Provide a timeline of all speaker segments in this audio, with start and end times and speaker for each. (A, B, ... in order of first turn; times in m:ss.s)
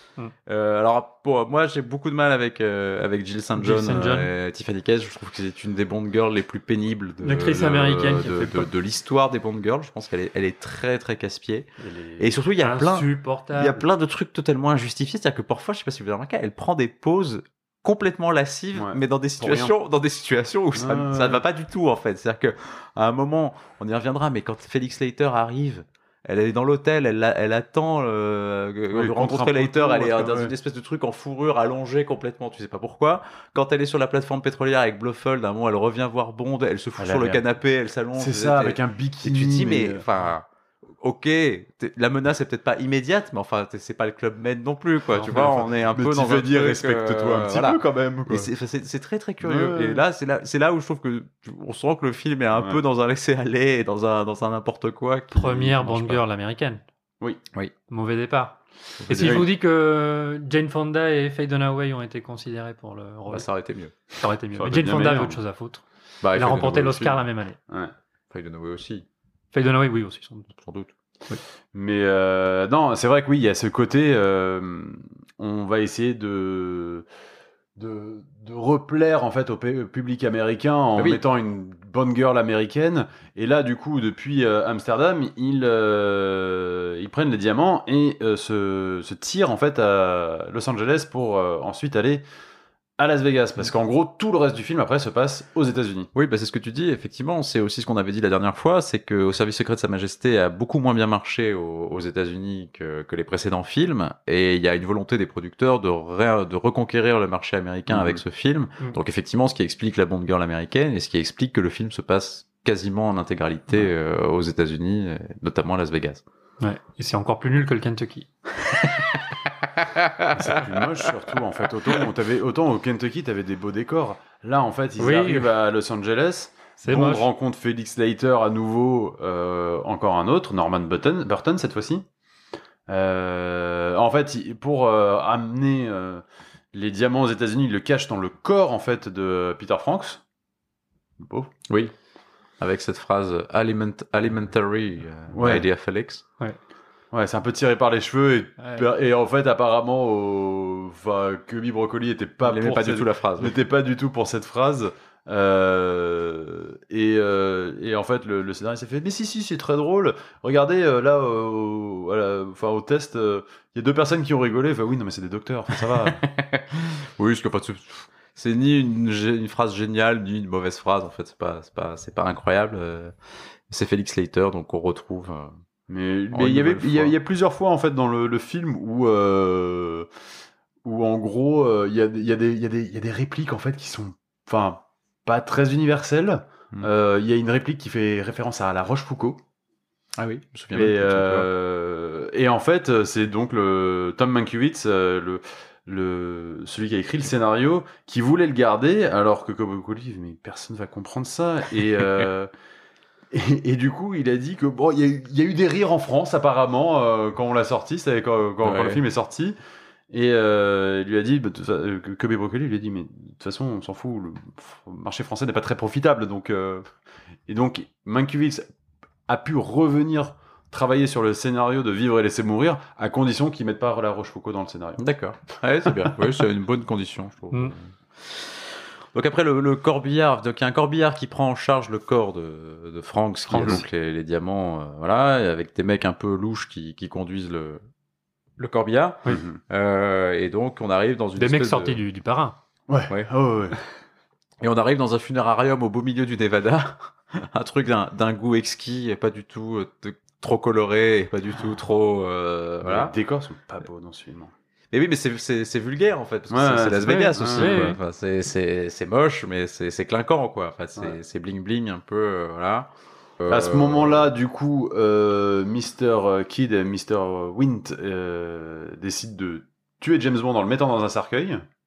0:00.4-0:40.4 A
0:03.6-0:04.3 B
0:07.2-0:08.7 B
0:11.8-0:12.3 C
0:12.6-0:13.8 B
0:18.7-0:19.7 C
0:20.8-0:21.4 C
0:28.9-0:30.5 C
0:37.0-0:37.4 C
0:38.1-0:40.1 C
0:41.0-0:56.2 A
0:45.1-0:45.5 B
0:45.3-0:48.5 C
0:49.4-0:50.0 C
0:52.5-0:52.8 C
0:55.3-0:56.8 B
0:57.9-0:58.6 B
0:59.0-0:59.5 A
0:59.1-1:03.5 B
0:59.2-0:59.5 C
1:03.3-1:04.0 A
1:04.2-1:07.6 B
1:04.6-1:05.4 C
1:06.2-1:07.2 A
1:08.3-1:09.0 A
1:09.5-1:10.5 B
1:10.6-1:10.9 A
1:11.7-1:17.0 C
1:17.8-1:32.2 C
1:21.0-1:21.2 A
1:33.0-1:36.1 C
1:36.1-1:56.2 A
1:47.9-1:48.2 C
1:56.6-1:58.3 B
1:59.8-2:00.7 A
2:00.3-2:12.0 C
2:05.0-2:05.5 B
2:06.8-2:07.3 B
2:12.9-2:20.2 C
2:21.2-2:21.5 C
2:22.6-2:26.2 A
2:25.3-2:25.6 C
2:27.1-2:46.2 C
2:28.6-2:28.8 B
2:32.4-2:33.6 A
2:46.1-2:53.1 A
2:53.7-2:55.5 A
2:55.9-3:00.1 C
2:56.3-2:57.1 A
3:00.8-3:09.4 C
3:10.2-3:11.5 A
3:10.7-3:22.5 C
3:23.3-3:29.6 C
3:28.6-3:29.0 A
3:30.1-3:36.8 C
3:37.5-3:38.7 C
3:39.3-3:45.0 C
3:45.0-3:57.8 A
3:53.5-3:53.8 B
3:53.5-3:53.8 C
3:58.6-4:02.0 A
3:59.3-3:59.6 C
4:01.4-4:02.6 B
4:02.9-4:03.8 C
4:04.6-4:13.1 A
4:12.8-4:14.5 C
4:14.9-4:24.3 A
4:16.5-4:17.9 C
4:17.5-4:18.0 B
4:23.5-4:31.6 C